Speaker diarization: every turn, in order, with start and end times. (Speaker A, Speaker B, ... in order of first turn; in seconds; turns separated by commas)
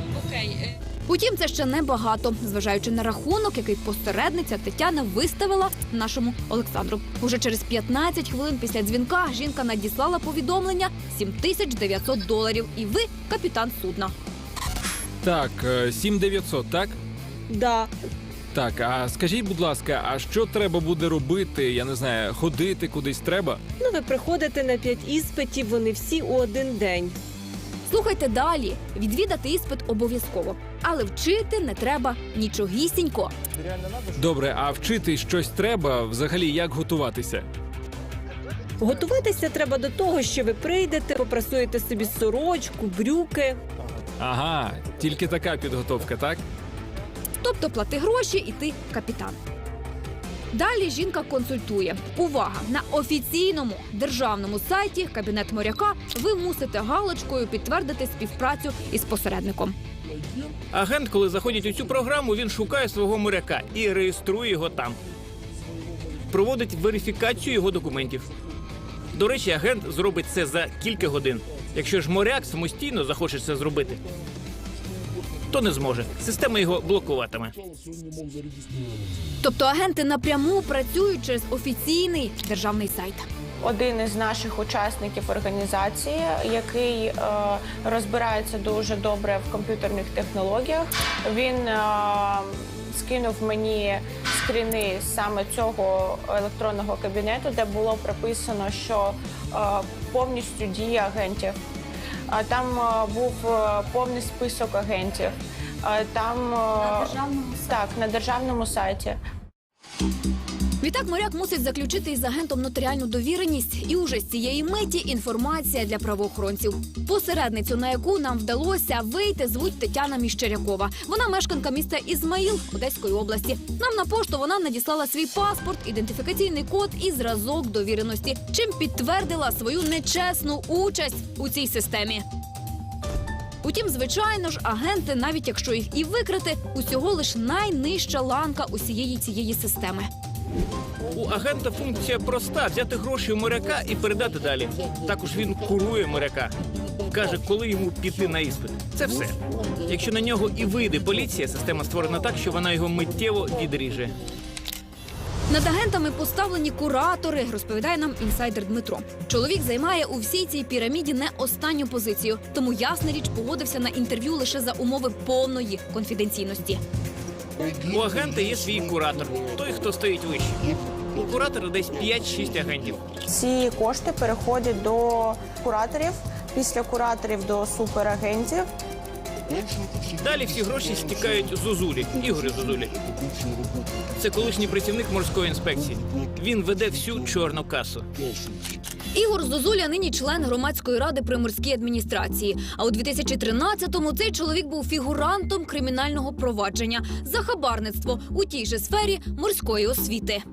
Speaker A: 0.2-14.1, Speaker B: 15.2-17.0, Speaker C: 17.5-17.9, Speaker B: 18.5-23.6, Speaker C: 23.8-27.1, Speaker A: 27.9-33.3, Speaker B: 34.1-37.5, Speaker C: 38.8-43.6, Speaker B: 44.2-46.4, Speaker A: 47.4-49.4, Speaker A: 50.5-59.7, Speaker D: 60.7-65.0, Speaker D: 66.3-68.3, Speaker D: 69.1-74.0, Speaker D: 75.5-77.6, Speaker A: 79.4-83.2, Speaker E: 83.6-101.6, Speaker E: 102.3-109.2, Speaker A: 107.0-107.5, Speaker A: 110.8-132.2, Speaker A: 133.6-140.1, Speaker D: 141.1-146.5, Speaker D: 147.1-154.2, Speaker A: 155.5-166.8, Speaker D: 167.8-173.0, Speaker E: 173.3-178.7, Speaker D: 180.2-182.9, Speaker D: 184.2-188.1, Speaker A: 189.1-200.4